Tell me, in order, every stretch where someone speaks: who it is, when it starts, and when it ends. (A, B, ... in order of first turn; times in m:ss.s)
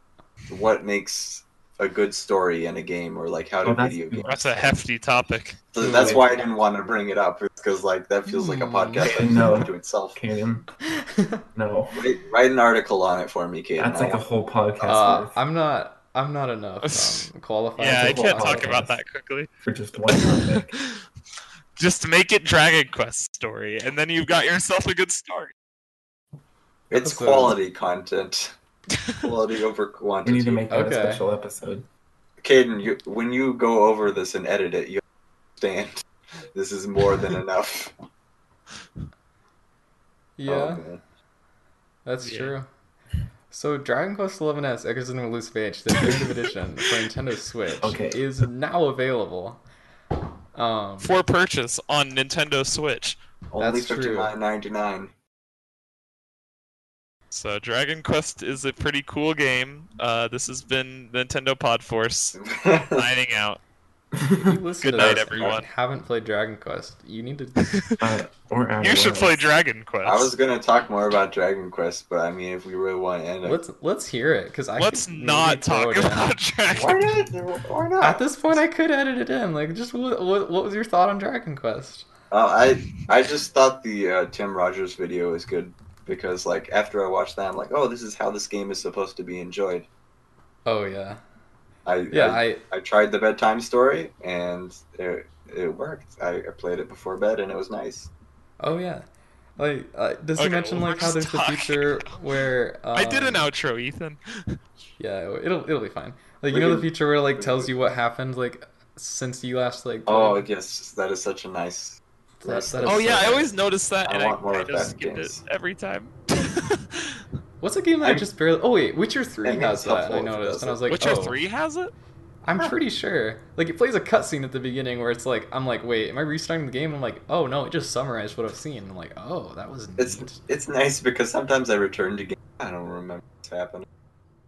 0:00.5-0:04.8 A
0:03.6-0:04.3 B
0:04.2-0:05.6 C
0:05.7-0:10.2 A
0:05.8-0:06.4 B
0:05.8-0:06.4 D
0:08.3-0:09.4 D
0:09.0-0:10.7 B
0:10.9-0:11.4 D
0:11.6-0:12.0 B
0:11.9-0:14.2 A
0:13.8-0:15.4 B
0:14.8-0:15.1 A
0:14.9-0:18.9 D
0:16.8-0:19.5 C
0:18.0-0:19.0 B
0:19.6-0:20.8 B
0:20.1-0:21.0 C
0:21.8-0:25.5 C
0:26.9-0:28.5 A
0:26.9-0:27.6 D
0:29.2-0:30.6 A
0:30.2-0:31.9 B
0:30.7-0:31.2 D
0:32.4-0:35.0 A
0:35.6-0:37.9 A
0:40.4-0:40.8 D
0:40.5-0:41.0 A
0:42.0-0:42.7 D
0:42.2-0:42.6 C
0:43.5-0:49.6 D
0:47.8-0:48.2 B
0:50.6-0:51.2 D
0:51.0-0:53.2 C
0:53.5-0:55.1 A
0:53.6-0:54.4 D
0:57.3-1:02.4 C
1:02.4-1:03.1 A
1:02.9-1:03.6 C
1:04.2-1:04.4 B
1:04.4-1:07.7 D
1:04.8-1:05.6 C
1:07.6-1:08.0 C
1:08.0-1:09.4 B
1:08.8-1:10.3 C
1:10.0-1:13.6 A
1:13.4-1:16.3 D
1:14.8-1:17.2 C
1:16.7-1:18.2 A
1:18.0-1:22.1 D
1:22.3-1:29.9 A
1:30.6-1:31.2 D
1:31.9-1:38.1 A
1:32.1-1:32.6 D
1:38.6-1:39.1 D
1:39.6-1:43.5 D
1:40.4-1:42.1 C
1:42.9-1:44.6 C
1:45.0-1:50.5 D
1:46.5-1:47.7 A
1:50.1-1:53.5 A
1:52.4-1:53.5 D
1:52.8-1:57.2 C
1:54.0-1:55.4 A
1:57.6-2:01.4 D
1:59.4-2:00.8 A
2:00.9-2:01.9 C
2:02.4-2:10.4 D
2:10.0-2:13.9 A